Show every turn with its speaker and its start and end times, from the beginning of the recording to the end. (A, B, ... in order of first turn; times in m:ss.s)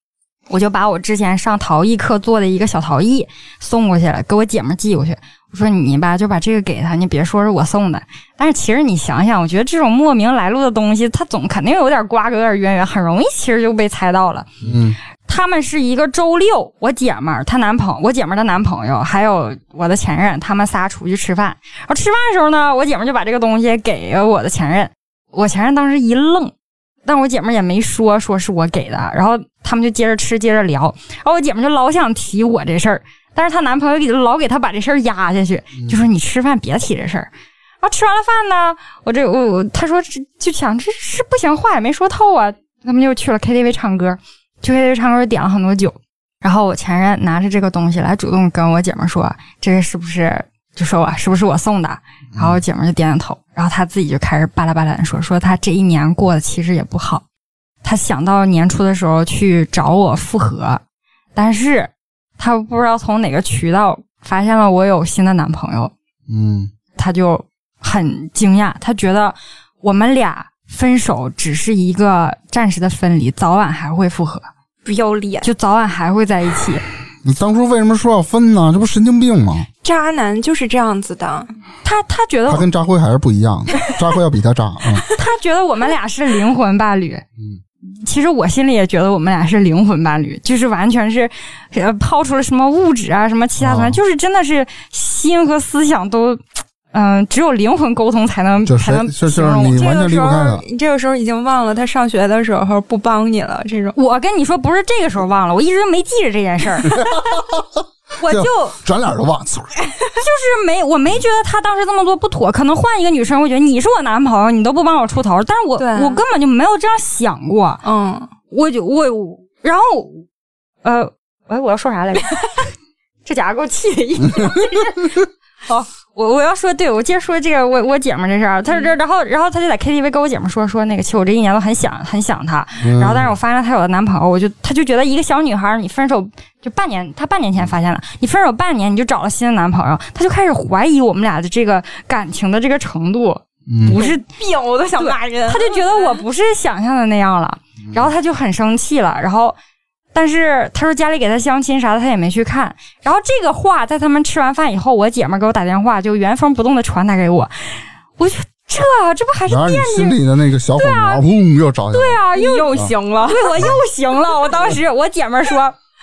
0:00.5-0:14.5 A
0:14.6-0:15.0 B
0:15.2-0:26.5 A
0:27.0-0:37.3 A
0:37.8-0:57.2 A
0:52.3-0:52.6 B
0:57.8-1:00.8 A
1:01.4-1:05.9 A
1:06.3-1:06.7 B
1:07.0-1:14.5 A
1:14.8-1:15.5 C
1:15.4-1:16.8 A
1:17.2-1:19.7 B
1:19.8-1:21.5 C
1:21.8-1:22.7 A
1:22.5-1:25.0 B
1:25.2-1:27.2 A
1:27.9-1:36.4 A
1:33.6-1:34.0 B
1:36.9-1:39.9 A
1:38.6-1:40.6 B
1:39.7-1:44.0 C
1:44.0-1:47.1 A
1:46.9-1:47.6 B
1:48.2-1:48.5 A
1:48.2-1:49.7 B
1:50.2-1:57.8 A
1:55.8-1:56.2 C
1:57.8-1:58.3 C
1:58.5-2:00.3 A
2:00.8-2:02.6 A
2:03.2-2:05.1 A
2:04.2-2:04.6 B
2:05.7-2:24.3 A
2:12.8-2:13.3 B
2:23.7-2:24.0 B
2:23.9-2:26.2 C
2:25.0-2:29.6 A
2:27.8-2:28.1 B
2:30.1-2:40.2 A
2:39.5-2:42.2 B
2:40.7-2:41.2 A
2:41.9-2:45.8 A
2:42.3-2:43.7 C